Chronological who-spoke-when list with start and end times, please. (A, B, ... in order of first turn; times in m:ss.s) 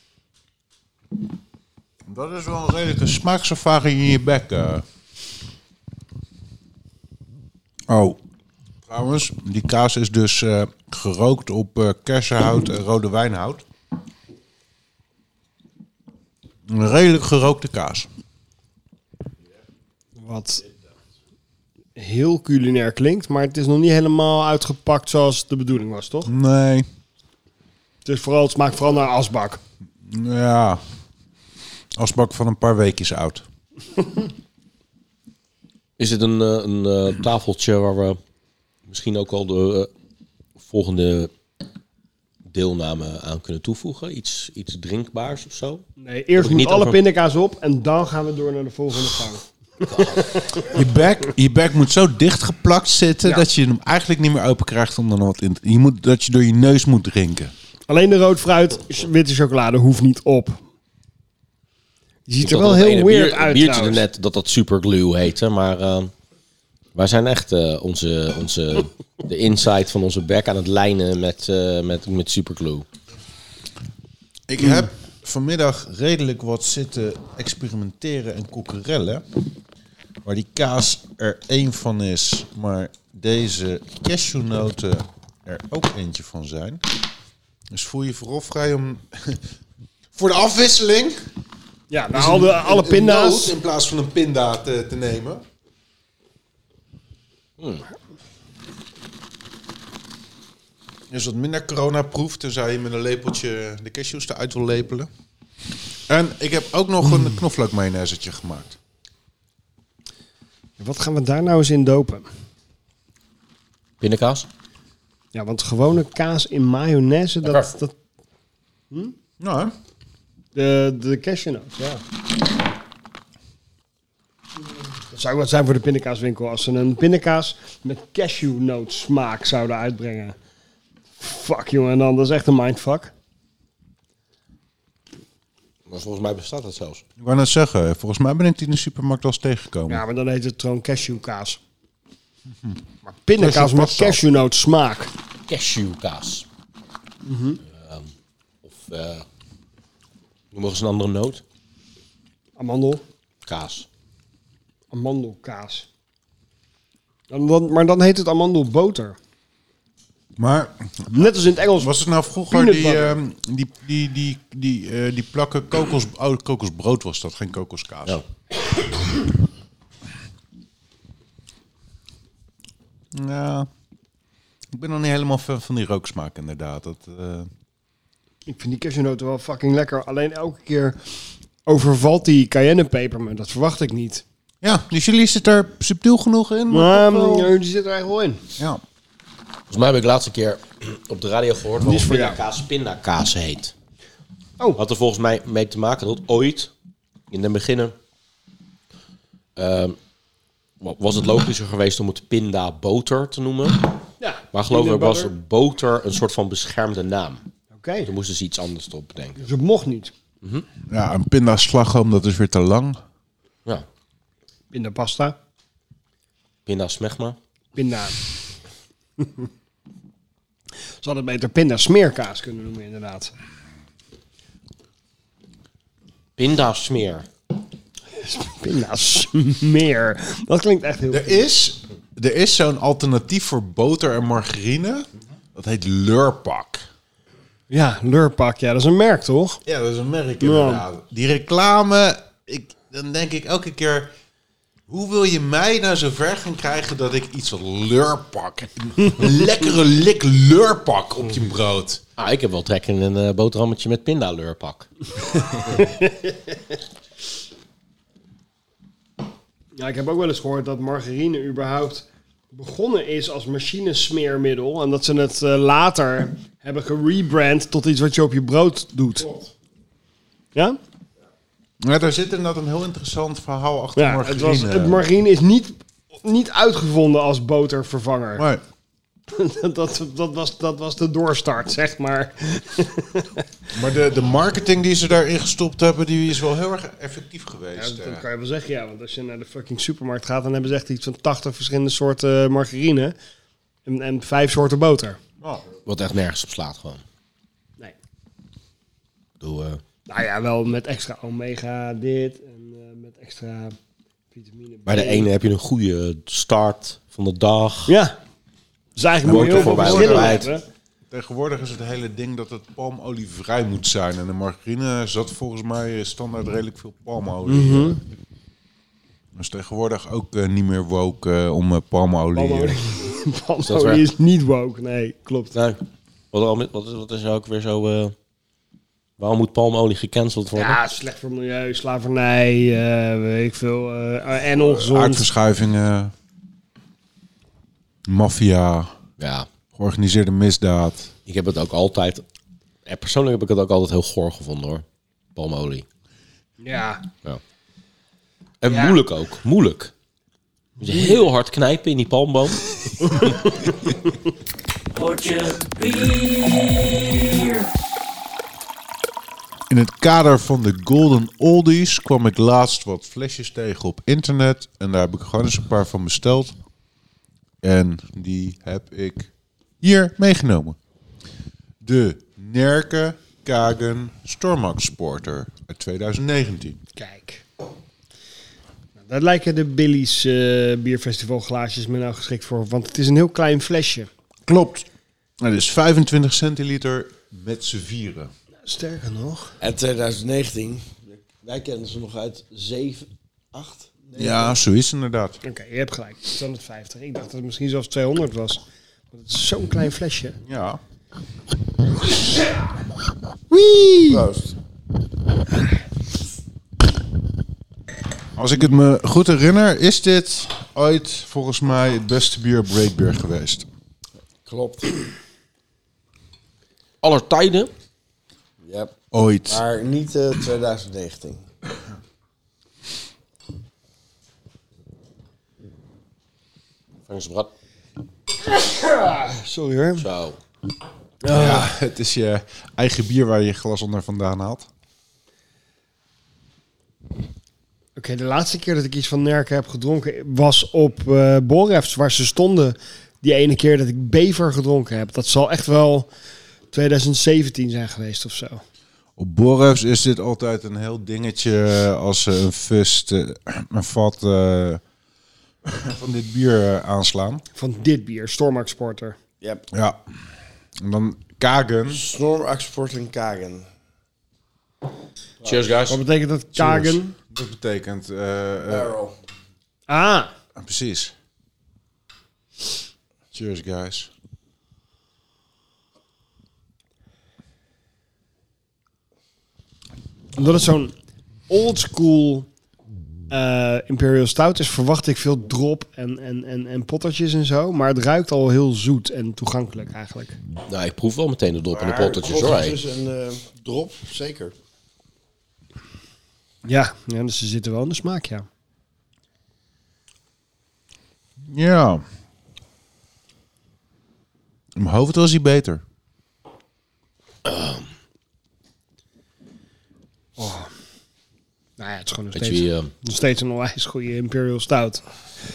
0:02.1-0:04.8 A
0:07.9-0:08.2 A
0:08.9-0:13.6 A
0:16.7-0:18.1 A
0:20.2-0:20.6 B
0:22.0-0:26.3 B
0:26.2-0:26.9 A
0:28.0-0:29.6 B
0:30.1-0:30.8 A
0:32.0-0:33.4 A
0:36.0-0:38.2 C
0:38.9-0:39.9 C
0:40.6-0:41.3 C
0:42.5-0:45.8 C
0:46.0-0:50.7 B
0:46.4-0:47.0 C
0:49.9-0:50.2 C
0:50.6-0:57.5 A
0:57.9-1:00.6 B
1:02.3-1:04.0 B
1:02.4-1:06.1 C
1:06.9-1:12.9 C
1:14.5-1:19.2 A
1:20.2-1:26.8 A
1:27.7-1:29.4 A
1:30.1-1:31.2 A
1:31.9-1:33.5 B
1:32.1-1:35.4 A
1:37.6-1:37.8 C
1:41.1-1:45.1 A
1:46.1-1:48.8 A
1:50.8-1:52.3 B
1:54.0-1:54.5 C
1:55.3-1:57.9 B
1:57.4-1:57.7 C
1:59.4-1:59.7 A
2:00.5-2:02.0 B
2:05.1-2:10.4 B
2:11.2-2:13.1 B
2:15.9-2:17.0 C
2:17.2-2:20.0 A
2:19.9-2:21.6 B
2:23.2-2:25.1 B
2:23.4-2:24.2 A
2:25.5-2:26.4 C
2:27.2-2:27.6 B
2:27.7-2:28.1 C
2:28.6-2:29.2 C
2:30.5-2:31.4 C
2:32.6-2:33.0 B
2:33.4-2:33.9 C
2:34.9-2:35.9 B
2:37.3-2:39.2 B
2:40.4-2:48.2 A
2:41.1-2:41.9 B
2:42.5-2:43.2 B
2:53.1-2:53.7 A
2:54.7-2:57.5 A
2:58.5-3:01.0 B
3:01.6-3:04.2 B
3:04.6-3:07.5 A
3:06.7-3:08.4 B
3:09.7-3:13.7 C
3:11.8-3:12.4 B
3:14.8-3:16.7 C
3:17.3-3:18.0 C
3:19.6-3:20.0 C
3:20.8-3:23.9 C
3:24.2-3:25.3 B
3:24.5-3:27.4 C
3:27.7-3:28.1 B
3:28.0-3:29.4 C
3:29.4-3:30.1 B
3:30.9-3:33.0 A
3:34.7-3:35.4 B
3:36.6-3:37.4 C
3:37.8-3:38.2 B
3:39.2-3:39.4 B
3:41.0-3:43.3 B
3:46.4-3:47.3 C
3:48.2-3:51.5 B
3:51.1-3:56.8 A
3:57.7-3:59.6 B
3:59.6-4:04.1 A
4:00.4-4:00.8 B
4:04.9-4:12.0 A
4:12.2-4:14.9 C
4:15.7-4:16.6 B
4:19.8-4:29.3 B
4:31.8-4:35.0 A
4:34.0-4:38.4 B
4:38.4-4:38.6 A
4:39.3-4:43.4 B
4:43.7-4:48.2 A
4:47.8-4:53.2 B
4:53.8-4:55.2 B
4:55.8-4:57.0 C
4:59.4-4:59.8 C
5:00.1-5:03.8 B
5:04.3-5:05.3 B
5:04.8-5:07.9 C
5:07.9-5:08.2 B
5:09.0-5:10.6 B
5:09.2-5:10.4 A
5:09.3-5:10.5 C
5:11.1-5:18.0 A
5:17.4-5:18.0 B
5:19.3-5:22.8 A
5:22.3-5:25.5 B
5:23.6-5:24.0 C
5:25.5-5:25.8 C
5:26.3-5:28.1 C
5:29.2-5:30.8 C
5:30.5-5:35.3 B
5:34.6-5:36.1 A
5:38.1-5:38.9 A
5:39.2-5:39.5 C
5:39.7-5:41.1 A
5:41.2-5:42.2 C
5:42.8-5:45.8 C
5:46.6-5:47.0 B
5:48.6-5:49.9 C
5:48.7-5:49.0 B
5:50.8-5:53.7 C
5:54.9-5:56.6 C
5:59.7-6:06.5 A
6:07.6-6:09.3 A
6:09.8-6:10.8 A
6:11.8-6:16.8 A
6:17.0-6:17.4 B
6:19.0-6:24.1 B
6:24.4-6:24.9 A
6:25.4-6:28.3 A
6:28.6-6:29.5 B
6:29.6-6:34.6 D
6:34.2-6:35.4 A
6:35.4-6:38.6 B
6:39.1-6:40.4 B
6:40.4-6:40.8 A
6:43.5-6:44.2 A
6:44.1-6:44.5 D
6:48.4-6:53.6 A
6:54.4-6:55.1 D
6:57.0-6:57.7 C
6:58.6-6:59.0 D
6:59.1-6:59.6 A
6:59.5-7:01.4 D
7:07.1-7:07.5 C
7:08.5-7:10.0 B
7:10.0-7:10.4 C
7:11.2-7:11.7 B
7:11.3-7:14.7 A
7:18.0-7:26.1 B
7:26.7-7:28.6 B
7:29.2-7:34.8 A
7:35.6-7:37.4 A
7:37.5-7:39.2 B
7:39.7-7:40.0 A
7:40.8-7:42.0 A
7:41.9-7:43.7 D
7:45.4-7:46.0 C
7:45.9-7:47.1 B
7:46.5-7:48.9 A
7:48.7-7:49.1 D
7:49.9-7:50.3 B
7:50.6-7:51.1 A
7:53.3-7:54.1 A
8:00.4-8:00.9 B
8:01.5-8:02.5 B
8:03.3-8:10.4 B
8:10.7-8:12.8 C
8:11.7-8:14.5 D
8:16.6-8:18.4 B
8:21.5-8:22.0 A
8:24.8-8:25.8 A
8:27.4-8:27.9 C
8:30.4-8:30.7 B
8:31.8-8:35.0 B
8:32.3-8:32.9 C